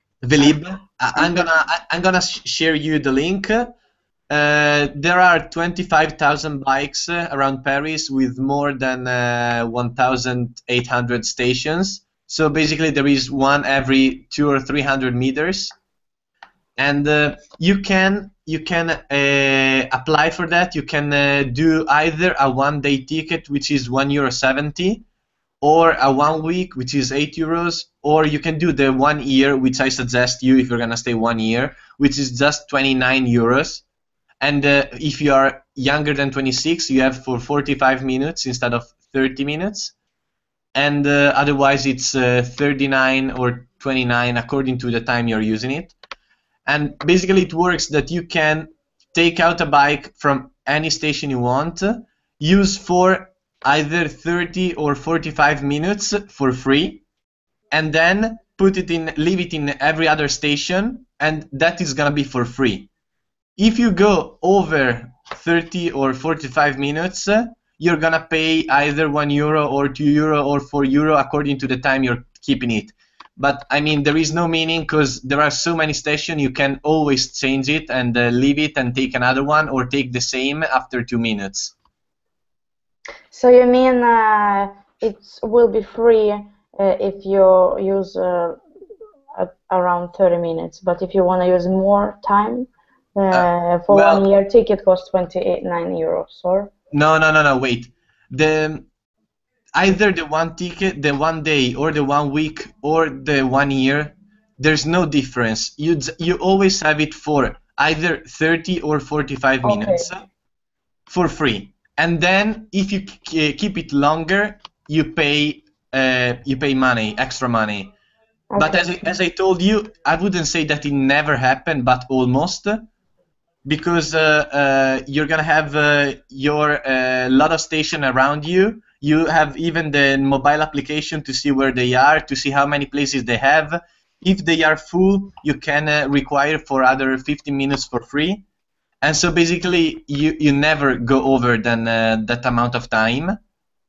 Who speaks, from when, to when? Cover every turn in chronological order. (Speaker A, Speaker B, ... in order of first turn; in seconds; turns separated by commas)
Speaker A: 0.2-3.7, Speaker A: 4.3-15.7, Speaker A: 16.8-25.0, Speaker A: 25.6-33.8, Speaker A: 34.4-39.9, Speaker A: 40.7-45.9, Speaker A: 46.6-57.0, Speaker A: 57.7-62.9, Speaker A: 63.6-81.7, Speaker B: 83.3-88.6, Speaker B: 89.3-96.7, Speaker A: 93.3-94.2, Speaker A: 96.9-98.9, Speaker A: 99.7-110.2, Speaker B: 109.6-110.1, Speaker A: 111.1-117.9, Speaker B: 118.5-119.0, Speaker A: 118.6-122.9, Speaker A: 123.6-138.4, Speaker A: 139.0-143.4